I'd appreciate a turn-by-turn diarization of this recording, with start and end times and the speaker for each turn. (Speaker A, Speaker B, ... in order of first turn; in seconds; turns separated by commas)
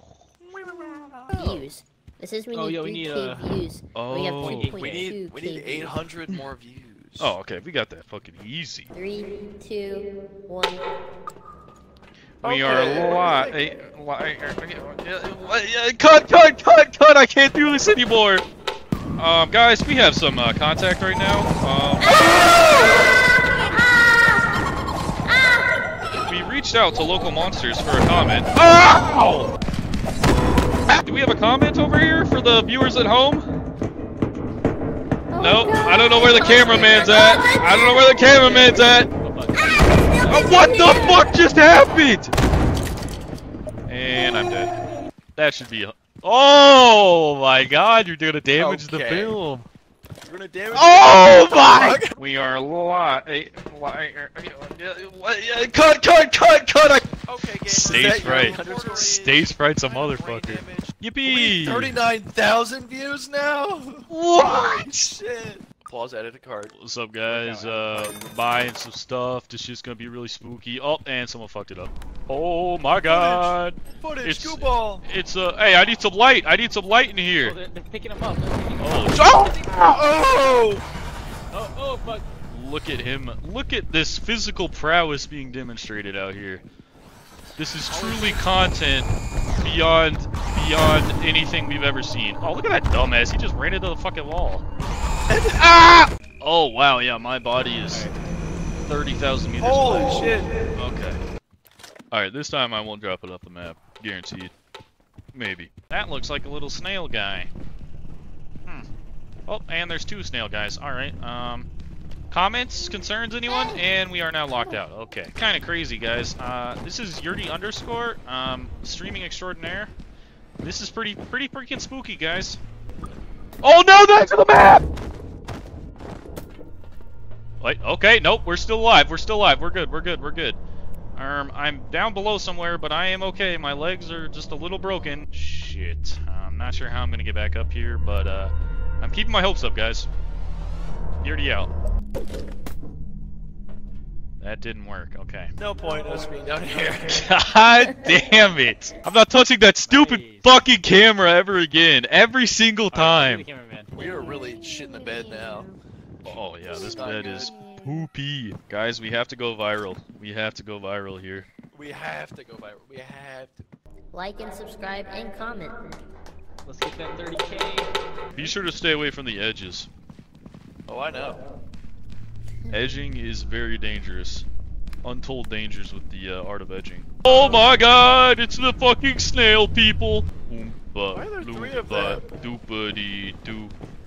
Speaker A: 0.5-1.2, Speaker B: 1.3-1.6, Speaker C: 1.3-5.9, Speaker D: 2.5-3.5, Speaker A: 3.9-4.7, Speaker D: 4.4-5.1, Speaker B: 4.8-7.3, Speaker A: 7.2-8.9, Speaker C: 8.9-10.9, Speaker A: 12.4-18.4, Speaker B: 12.4-13.6, Speaker A: 19.2-22.6, Speaker C: 22.0-23.0, Speaker C: 23.7-24.6, Speaker C: 25.2-25.7, Speaker A: 26.2-29.5, Speaker A: 30.9-33.5, Speaker C: 35.3-38.1, Speaker A: 35.4-39.1, Speaker D: 38.4-40.3, Speaker C: 39.6-41.2, Speaker A: 40.3-42.3, Speaker A: 43.9-44.7, Speaker A: 45.4-49.7, Speaker B: 48.5-49.4, Speaker B: 50.2-52.2, Speaker A: 50.7-62.0, Speaker B: 57.3-66.7, Speaker A: 64.1-65.1, Speaker A: 66.7-77.5, Speaker D: 67.2-68.3, Speaker B: 73.0-75.0, Speaker D: 77.4-79.8, Speaker A: 78.8-80.0, Speaker B: 79.4-80.8, Speaker D: 81.5-82.3, Speaker A: 82.5-86.6, Speaker A: 87.6-94.6, Speaker D: 87.9-88.5, Speaker B: 95.3-95.6, Speaker A: 95.5-98.1, Speaker D: 97.9-98.2, Speaker A: 98.8-100.2, Speaker B: 99.6-100.5, Speaker A: 100.7-101.2, Speaker A: 102.1-104.5, Speaker A: 105.3-107.5, Speaker A: 109.5-111.7, Speaker A: 112.3-119.9, Speaker C: 113.5-113.8, Speaker C: 114.5-114.8, Speaker A: 120.6-122.6, Speaker A: 123.6-124.8, Speaker A: 127.6-130.6, Speaker A: 131.2-140.1, Speaker A: 141.2-141.7, Speaker A: 144.4-145.5, Speaker B: 145.6-147.2, Speaker A: 147.1-153.4, Speaker D: 149.9-150.5, Speaker D: 152.9-153.9, Speaker B: 153.9-155.7, Speaker C: 154.0-155.8, Speaker B: 156.2-157.5, Speaker A: 156.3-161.5, Speaker C: 156.7-158.1, Speaker B: 161.7-163.6, Speaker C: 164.1-166.0, Speaker D: 166.6-167.9, Speaker A: 168.3-169.9, Speaker B: 170.9-171.4, Speaker C: 172.6-173.0, Speaker A: 172.7-174.4, Speaker A: 175.0-183.7, Speaker B: 177.3-177.6, Speaker B: 181.1-182.2